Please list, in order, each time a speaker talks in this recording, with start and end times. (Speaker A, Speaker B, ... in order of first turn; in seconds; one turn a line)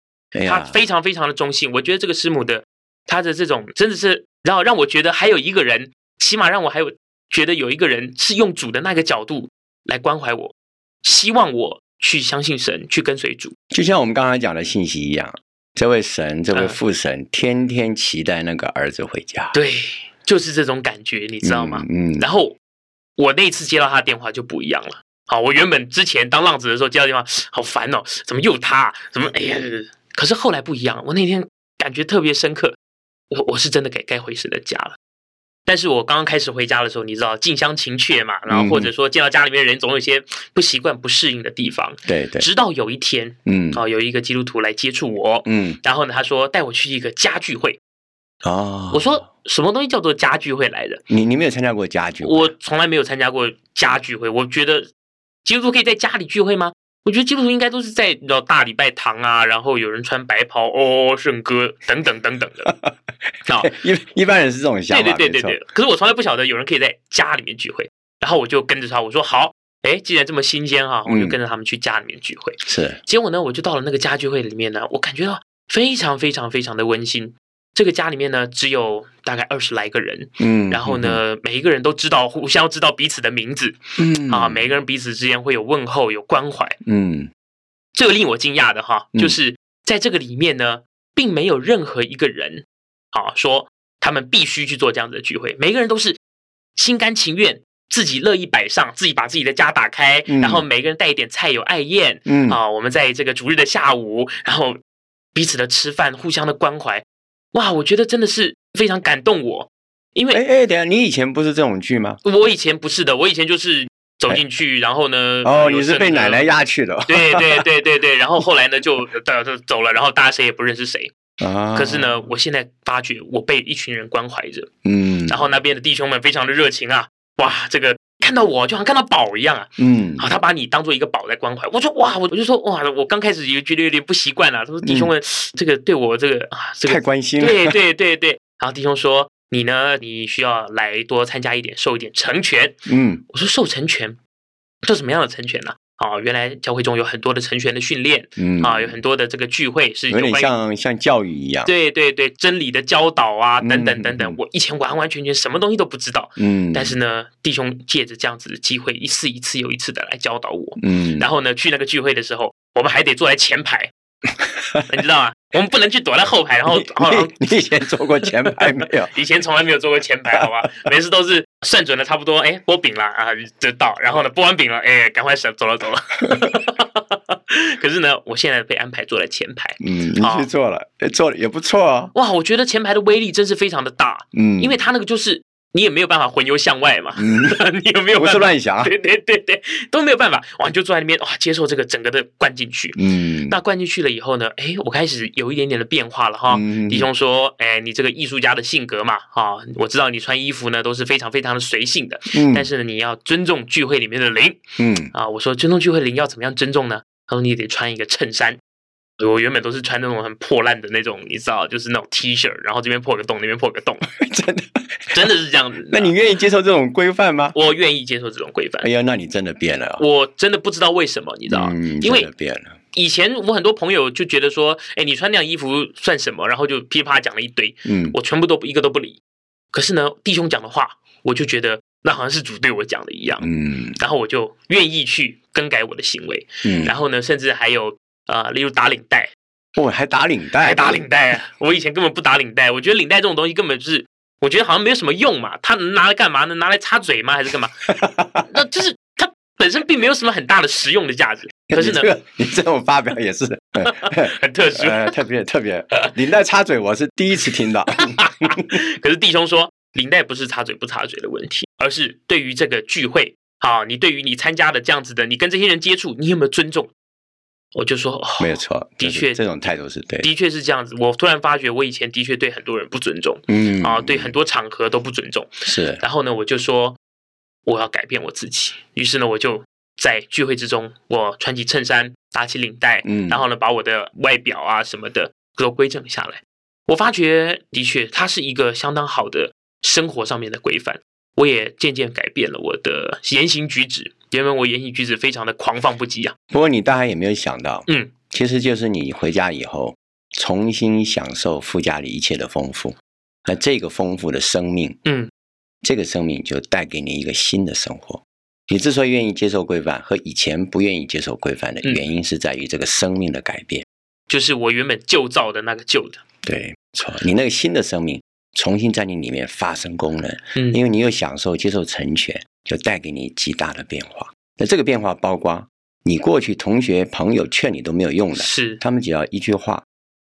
Speaker A: 0.3-0.7
Speaker B: 0.4-13.5
Speaker A: 13.7-19.5
Speaker B: 16.5-16.8
Speaker B: 19.5-22.6
Speaker A: 21.4-22.2
Speaker B: 23.2-32.8
Speaker B: 33.3-35.0
Speaker B: 35.6-47.8
Speaker A: 38.5-38.9
Speaker A: 42.1-42.5
Speaker A: 43.5-43.8
Speaker A: 45.5-45.8
Speaker A: 48.4-49.1
Speaker B: 48.9-51.0
Speaker A: 51.1-52.5
Speaker B: 52.2-54.9
Speaker B: 55.4-62.7
Speaker A: 62.6-62.9
Speaker B: 63.5-63.8
Speaker A: 63.6-65.5
Speaker B: 64.9-86.8
Speaker A: 71.1-71.4
Speaker A: 72.7-73.0
Speaker A: 80.4-81.2
Speaker A: 84.0-84.7
Speaker A: 86.8-87.3
Speaker B: 87.9-96.2
Speaker B: 96.8-104.8
Speaker A: 100.3-100.6
Speaker A: 102.2-102.6
Speaker B: 105.3-110.4
Speaker A: 110.3-112.2
Speaker B: 112.2-116.4
Speaker A: 115.4-117.6
Speaker B: 117.1-121.1
Speaker A: 121.4-122.2
Speaker B: 121.7-124.7
Speaker A: 124.8-125.4
Speaker B: 125.3-144.2
Speaker A: 129.8-130.2
Speaker A: 134.8-135.1
Speaker A: 136.9-137.8
Speaker A: 142.8-143.2
Speaker B: 144.8-150.5
Speaker A: 148.4-149.0
Speaker A: 150.1-151.7
Speaker B: 151.7-163.9
Speaker A: 153.6-154.4
Speaker A: 156.4-156.9
Speaker A: 160.8-161.3
Speaker B: 164.9-167.3
Speaker A: 166.7-169.1
Speaker B: 168.6-180.5
Speaker A: 179.8-182.1
Speaker B: 182.1-208.6
Speaker A: 184.3-184.7
Speaker A: 187.2-187.6
Speaker A: 188.1-188.9
Speaker A: 192.9-193.6
Speaker A: 196.5-197.1
Speaker A: 202.3-202.7
Speaker A: 204.8-205.1
Speaker B: 209.2-214.1
Speaker A: 214.1-215.3
Speaker B: 215.1-216.1
Speaker A: 215.9-217.5
Speaker B: 217.5-218.9
Speaker A: 218.8-220.0
Speaker B: 220.0-222.3
Speaker A: 221.5-222.8
Speaker B: 222.9-229.2
Speaker A: 227.8-228.2
Speaker B: 229.7-239.3
Speaker A: 233.4-234.0
Speaker A: 236.6-236.9
Speaker A: 239.8-241.0
Speaker B: 240.6-252.1
Speaker A: 247.9-248.4
Speaker A: 251.7-258.8
Speaker B: 253.8-255.2
Speaker B: 258.0-266.9
Speaker B: 267.7-269.4
Speaker A: 268.4-270.3
Speaker B: 270.2-277.0
Speaker A: 273.5-274.3
Speaker A: 275.6-276.0
Speaker B: 277.6-296.3
Speaker A: 283.0-283.4
Speaker A: 296.5-305.0
Speaker B: 297.9-298.1
Speaker B: 305.0-305.3
Speaker A: 305.8-313.8
Speaker B: 314.3-316.2
Speaker A: 316.4-329.8
Speaker B: 328.4-328.8